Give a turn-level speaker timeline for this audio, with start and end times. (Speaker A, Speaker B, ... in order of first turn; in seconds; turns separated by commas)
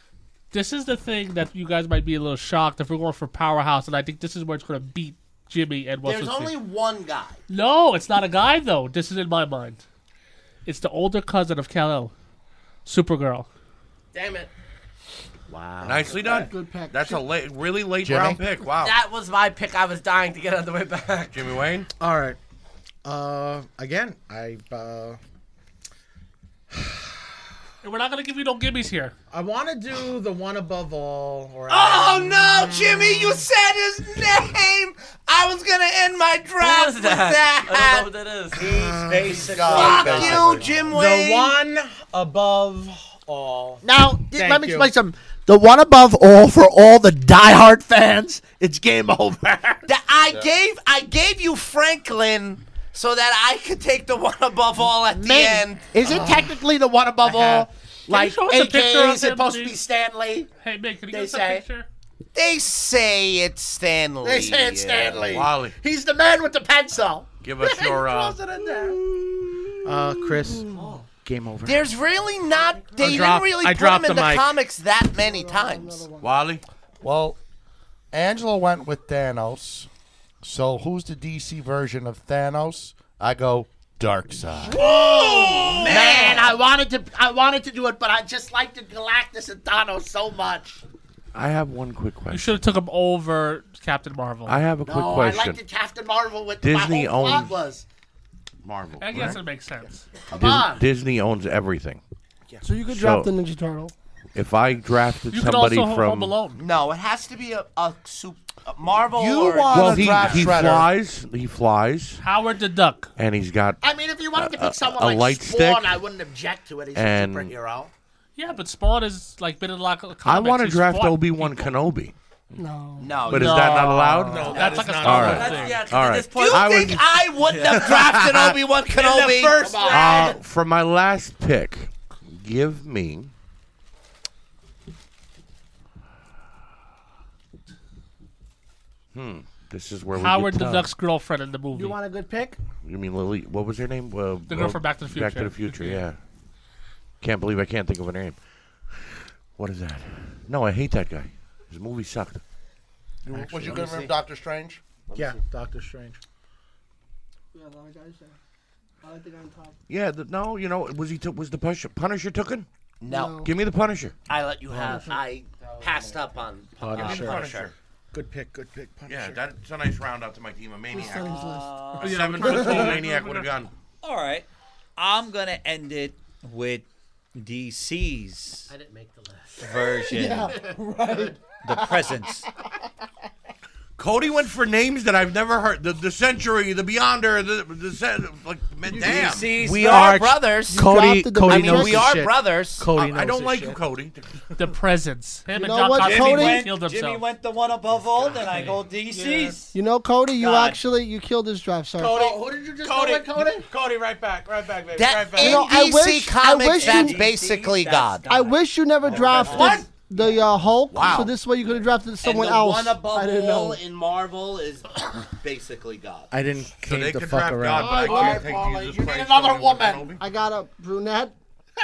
Speaker A: 0.5-6.5, Speaker B: 6.0-7.4, Speaker A: 7.5-9.8, Speaker A: 10.6-12.1, Speaker A: 12.8-13.5, Speaker C: 14.1-14.5, Speaker D: 15.5-16.5, Speaker E: 15.8-18.9, Speaker F: 16.1-17.2, Speaker G: 18.0-18.4, Speaker C: 18.8-21.4, Speaker E: 21.3-21.9, Speaker H: 22.0-22.4, Speaker H: 23.0-25.2, Speaker H: 26.7-27.2, Speaker A: 27.8-29.1, Speaker H: 29.3-33.4, Speaker B: 31.7-38.1, Speaker C: 36.6-38.6, Speaker H: 38.5-44.9, Speaker I: 38.6-40.6, Speaker G: 39.2-40.8, Speaker B: 39.7-41.6, Speaker D: 43.8-49.8, Speaker B: 49.9-55.9, Speaker D: 55.1-60.5, Speaker H: 56.0-56.5, Speaker H: 57.2-57.7, Speaker A: 58.1-59.8, Speaker A: 60.6-61.9, Speaker D: 61.1-61.6, Speaker B: 62.3-65.3, Speaker D: 64.2-69.2, Speaker E: 65.3-65.7, Speaker E: 67.4-68.4, Speaker H: 68.5-68.9, Speaker H: 69.8-71.8, Speaker B: 71.6-76.1, Speaker H: 72.9-74.6, Speaker F: 75.2-76.3, Speaker E: 76.2-76.6, Speaker G: 77.0-77.4, Speaker G: 78.1-79.9, Speaker G: 80.4-84.8, Speaker B: 84.7-86.6, Speaker D: 84.8-90.8, Speaker E: 91.3-92.6, Speaker A: 92.3-94.6, Speaker E: 94.5-95.6, Speaker D: 94.8-97.8, Speaker E: 96.6-97.5, Speaker E: 98.6-99.4, Speaker A: 99.0-100.0, Speaker D: 100.3-100.9, Speaker E: 100.3-102.0, Speaker F: 102.6-103.9, Speaker E: 102.9-103.3, Speaker E: 104.3-106.3, Speaker A: 105.3-106.6, Speaker B: 106.5-110.6, Speaker G: 109.1-110.9, Speaker E: 109.7-112.2, Speaker A: 112.2-113.1, Speaker E: 113.2-113.8, Speaker D: 113.8-117.9, Speaker E: 114.3-115.9, Speaker E: 116.9-117.5, Speaker A: 118.3-121.7, Speaker E: 120.2-122.1, Speaker F: 122.5-123.1, Speaker B: 123.0-123.7, Speaker E: 123.3-127.1, Speaker A: 123.3-125.8, Speaker H: 124.2-125.8, Speaker C: 124.5-127.0, Speaker B: 126.2-129.9, Speaker E: 127.7-128.6, Speaker H: 128.9-130.3, Speaker D: 129.6-130.4, Speaker E: 129.8-133.3, Speaker E: 139.1-140.9, Speaker A: 140.1-142.0, Speaker F: 141.7-142.6, Speaker E: 142.8-146.2, Speaker A: 144.5-146.0, Speaker E: 147.2-148.4, Speaker E: 148.9-152.4, Speaker H: 153.2-153.9, Speaker G: 153.3-155.4, Speaker B: 153.6-154.1, Speaker H: 155.1-156.2, Speaker F: 157.5-158.4, Speaker F: 159.0-159.8, Speaker E: 159.9-162.7, Speaker B: 163.0-163.5, Speaker F: 163.1-163.5, Speaker E: 163.4-164.1, Speaker B: 164.3-167.7, Speaker H: 164.7-165.0, Speaker H: 166.8-167.5, Speaker E: 166.9-167.7, Speaker H: 168.1-169.4, Speaker E: 169.1-171.3, Speaker F: 170.9-172.6, Speaker I: 171.0-172.7, Speaker E: 172.0-173.7, Speaker A: 172.1-173.5, Speaker H: 172.6-173.0, Speaker I: 174.0-178.7, Speaker C: 178.7-179.8, Speaker I: 179.6-180.5, Speaker F: 180.1-181.3, Speaker I: 181.6-182.5, Speaker E: 184.0-189.5, Speaker H: 188.9-193.8, Speaker I: 189.0-190.1, Speaker B: 189.5-192.9, Speaker F: 190.7-192.1, Speaker E: 192.9-194.6, Speaker A: 194.6-197.2, Speaker F: 195.5-196.7, Speaker I: 196.0-199.7, Speaker H: 198.3-199.5, Speaker F: 199.7-202.2, Speaker I: 200.4-200.8, Speaker H: 202.0-205.6, Speaker D: 202.0-203.7, Speaker B: 204.9-208.3, Speaker F: 205.4-207.3, Speaker I: 206.8-208.3, Speaker F: 208.2-213.8, Speaker I: 209.0-209.8, Speaker B: 209.1-210.4, Speaker E: 210.9-211.3, Speaker B: 212.2-216.3, Speaker H: 216.3-218.6, Speaker E: 216.8-220.2, Speaker F: 217.8-218.3, Speaker D: 217.9-220.1, Speaker F: 220.2-221.3